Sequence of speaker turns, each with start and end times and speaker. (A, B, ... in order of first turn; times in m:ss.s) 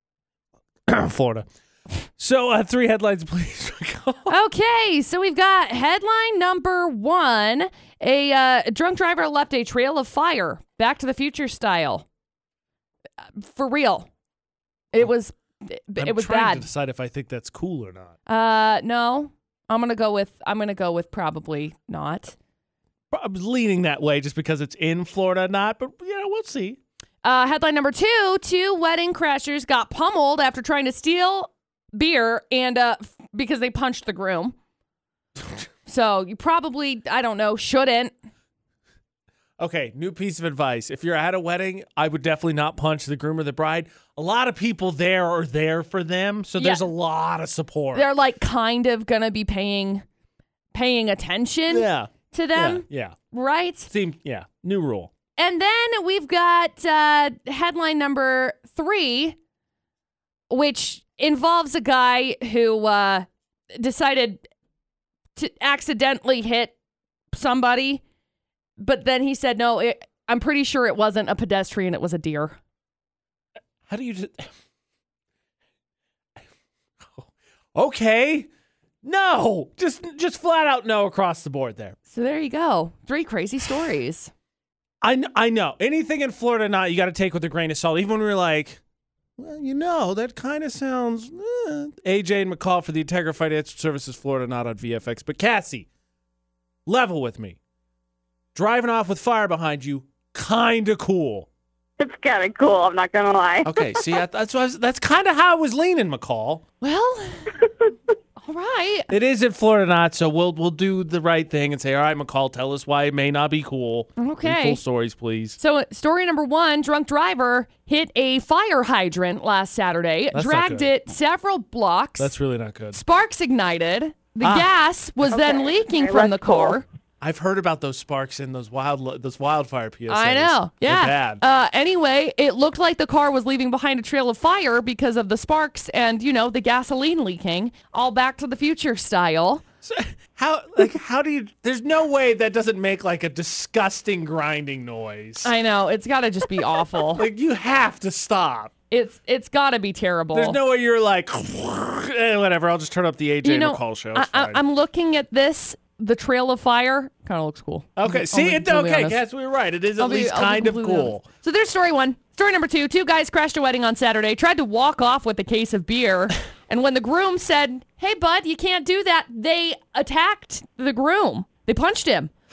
0:00.9-0:01.5 A
0:02.1-0:04.3 A
0:04.3-0:12.1 B
0:13.4-0:14.1 B
0:14.9-0:16.7 B
0:16.0-0:18.2 A
0:18.3-0:22.3 B
0:23.1-0:26.8 A
0:27.2-0:34.6 B
0:35.9-0:38.1 B
0:39.6-0:48.1 A
0:46.6-0:46.9 B
0:47.9-0:50.0 B
0:50.7-0:53.9 B
0:51.7-0:53.2 A
0:53.9-0:55.1 A
0:55.4-0:59.4 B
1:00.5-1:04.4 B
1:05.4-1:06.7 B
1:07.3-1:08.0 B
1:08.8-1:12.6 B
1:13.9-1:14.5 A
1:17.0-1:18.5 A
1:19.0-1:22.0 A
1:22.1-1:24.3 B
1:25.0-1:28.8 A
1:29.4-1:35.9 A
1:36.9-1:37.6 A
1:38.6-1:41.5 A
1:42.0-1:44.1 C
1:43.6-1:46.6 A
1:46.8-1:47.7 B
1:48.4-1:49.1 B
1:49.1-1:55.6 A
1:54.2-1:54.8 B
1:55.6-2:02.4 B
2:00.3-2:00.9 A
2:02.2-2:03.0 A
2:02.9-2:06.8 B
2:04.4-2:04.7 A
2:05.3-2:06.8 C
2:07.2-2:11.4 A
2:10.1-2:19.6 B
2:19.8-2:25.5 A
2:25.4-2:27.2 B
2:27.1-2:28.7 A
2:28.9-2:30.6 B
2:30.3-2:34.6 A
2:33.4-2:39.2 B
2:38.0-2:41.2 A
2:40.0-2:52.3 B